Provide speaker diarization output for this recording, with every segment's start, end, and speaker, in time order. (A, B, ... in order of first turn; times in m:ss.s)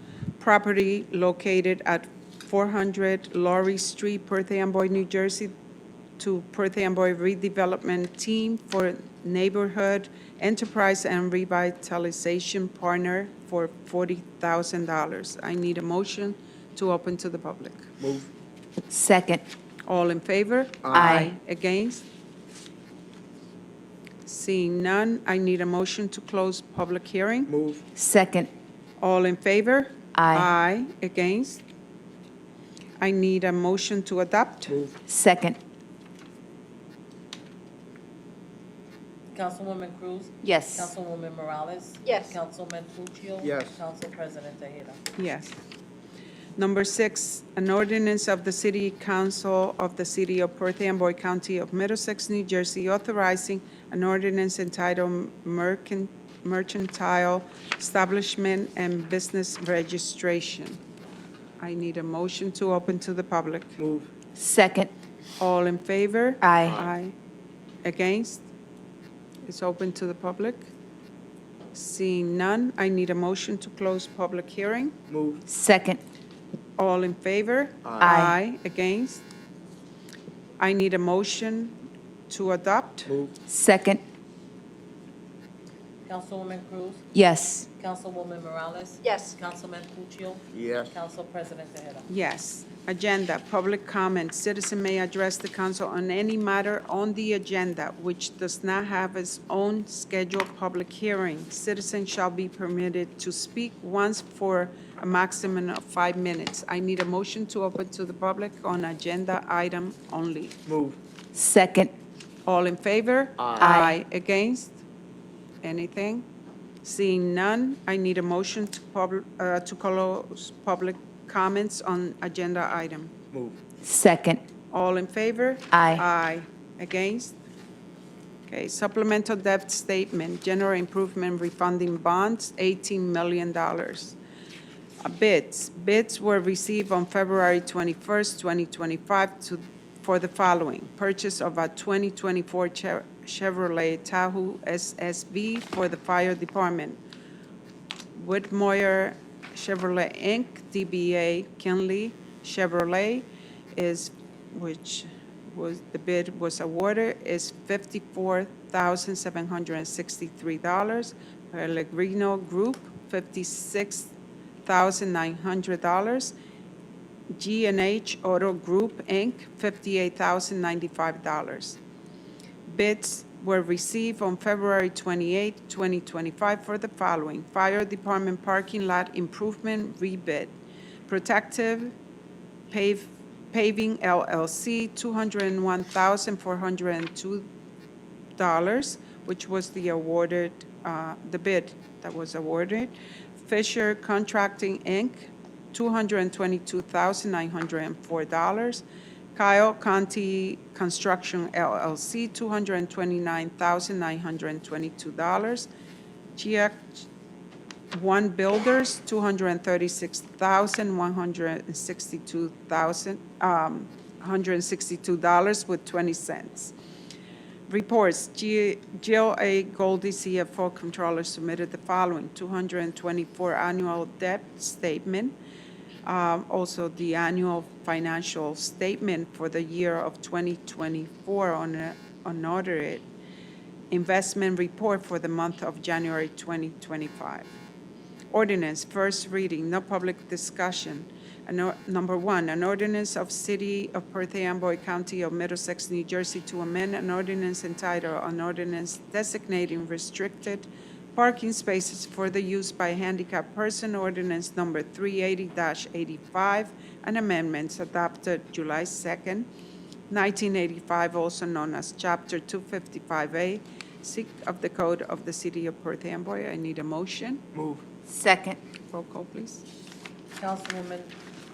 0:00.4-0:05.5 A
0:06.2-0:17.9 A
0:18.0-0:18.3 B
0:18.9-0:19.4 C
0:19.9-0:22.0 A
0:20.8-0:21.1 B
0:20.9-0:21.3 C
0:24.2-0:27.5 A
0:27.5-0:27.8 B
0:27.9-0:28.5 C
0:29.0-0:31.6 A
0:30.1-0:30.5 C
0:33.0-0:34.8 A
0:34.7-0:34.9 B
0:35.1-0:35.6 C
0:39.3-0:45.0 D
0:40.4-0:40.9 C
0:43.4-0:43.7 B
0:45.2-0:45.6 A
0:46.6-1:00.8 A
1:01.6-1:03.8 A
1:03.8-1:04.1 B
1:04.4-1:04.9 C
1:05.4-1:07.1 A
1:06.4-1:06.8 C
1:07.8-1:08.4 A
1:09.5-1:10.7 A
1:11.7-1:15.0 A
1:15.1-1:15.4 B
1:15.5-1:16.0 C
1:16.8-1:19.2 A
1:17.8-1:18.1 B
1:18.0-1:18.4 C
1:20.6-1:21.8 A
1:22.3-1:23.1 A
1:23.1-1:23.3 B
1:23.5-1:24.0 C
1:26.0-1:27.0 D
1:27.1-1:27.7 C
1:27.8-1:32.1 D
1:30.5-1:30.9 B
1:32.1-1:50.6 A
1:50.6-1:51.0 B
1:51.3-1:51.9 C
1:52.4-1:54.8 A
1:53.4-1:53.6 B
1:53.6-1:54.0 C
1:55.6-1:56.2 A
1:56.8-2:03.1 A
2:03.3-2:03.6 B
2:03.8-2:04.4 C
2:04.7-2:07.4 A
2:05.7-2:06.0 C
2:08.5-2:14.2 A
2:15.0-2:27.0 A
2:28.1-2:44.1 A
2:44.6-2:46.3 A
2:47.3-2:51.8 A
2:52.6-3:00.6 A
3:01.1-3:01.9 A
3:02.7-3:07.5 A
3:08.4-3:25.7 A
3:26.3-3:27.1 A
3:27.9-3:36.7 A
3:37.7-3:45.4 A
3:46.0-3:53.0 A
3:53.9-3:57.5 A
3:58.3-4:19.5 A
4:20.1-4:27.4 A
4:27.5-4:27.8 B
4:28.0-4:28.6 C
4:28.9-4:29.6 A
4:30.4-4:31.1 D